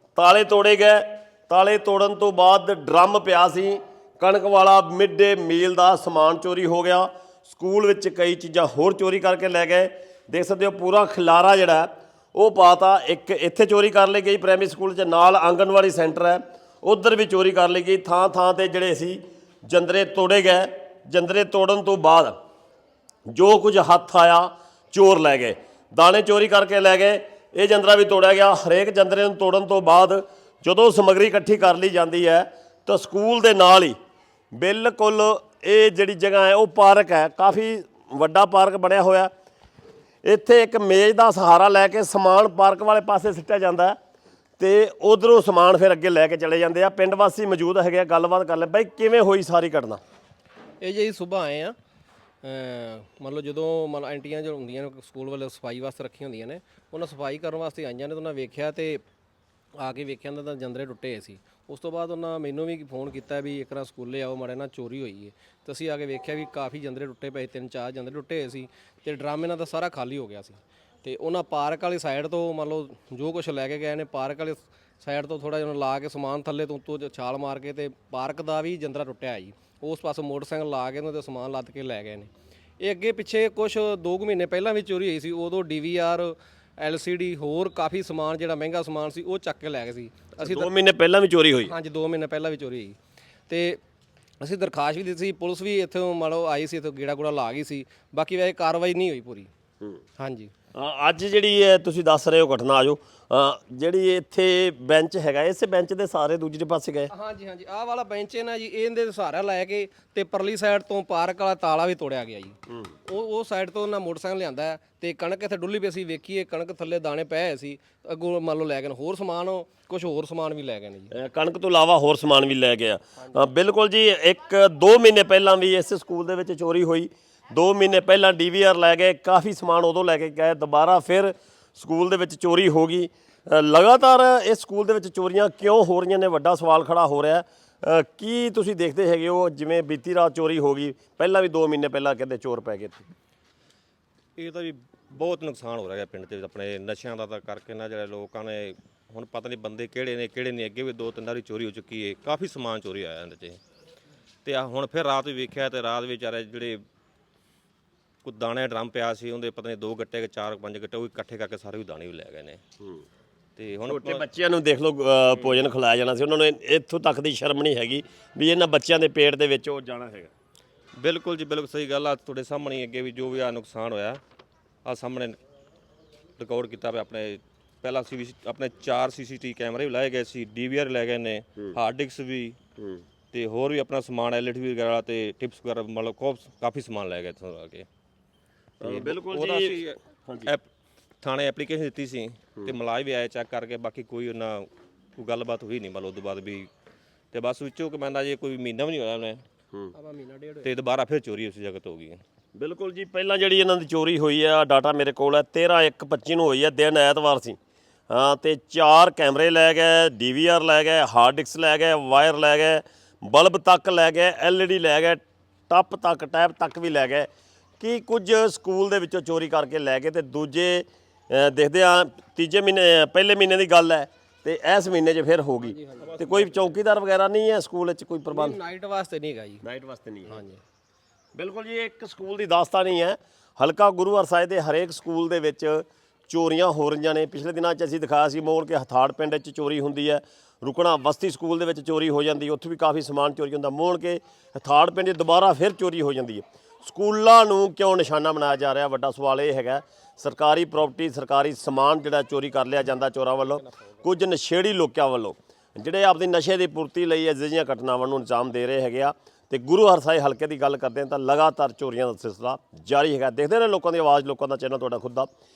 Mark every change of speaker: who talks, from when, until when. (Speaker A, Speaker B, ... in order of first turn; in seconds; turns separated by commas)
Speaker A: 0.1-22.4, Speaker A: 23.3-34.0, Speaker A: 34.5-39.3, Speaker A: 40.2-44.0, Speaker A: 44.6-50.0, Speaker B: 50.8-51.7, Speaker B: 52.4-59.0, Speaker B: 59.8-82.3, Speaker B: 82.8-90.7, Speaker A: 90.4-91.7, Speaker B: 91.6-93.0, Speaker B: 93.5-93.8, Speaker B: 94.4-99.5, Speaker B: 100.2-100.5, Speaker A: 100.7-107.1, Speaker B: 107.1-121.1, Speaker A: 121.1-143.0, Speaker C: 144.4-153.6, Speaker C: 154.4-156.8, Speaker C: 158.2-162.6, Speaker C: 163.6-164.2, Speaker A: 163.9-170.3, Speaker C: 171.0-174.2, Speaker C: 174.8-175.4, Speaker C: 176.4-182.6, Speaker C: 183.3-187.9, Speaker A: 188.8-190.5, Speaker C: 188.8-190.6, Speaker C: 191.2-196.7, Speaker C: 197.3-199.4, Speaker B: 199.9-200.7, Speaker C: 200.6-202.2, Speaker A: 202.5-207.6, Speaker A: 208.1-217.3, Speaker A: 217.8-228.6, Speaker B: 225.7-226.4, Speaker B: 228.3-229.6, Speaker A: 229.6-230.4, Speaker B: 230.3-230.6, Speaker A: 231.3-265.3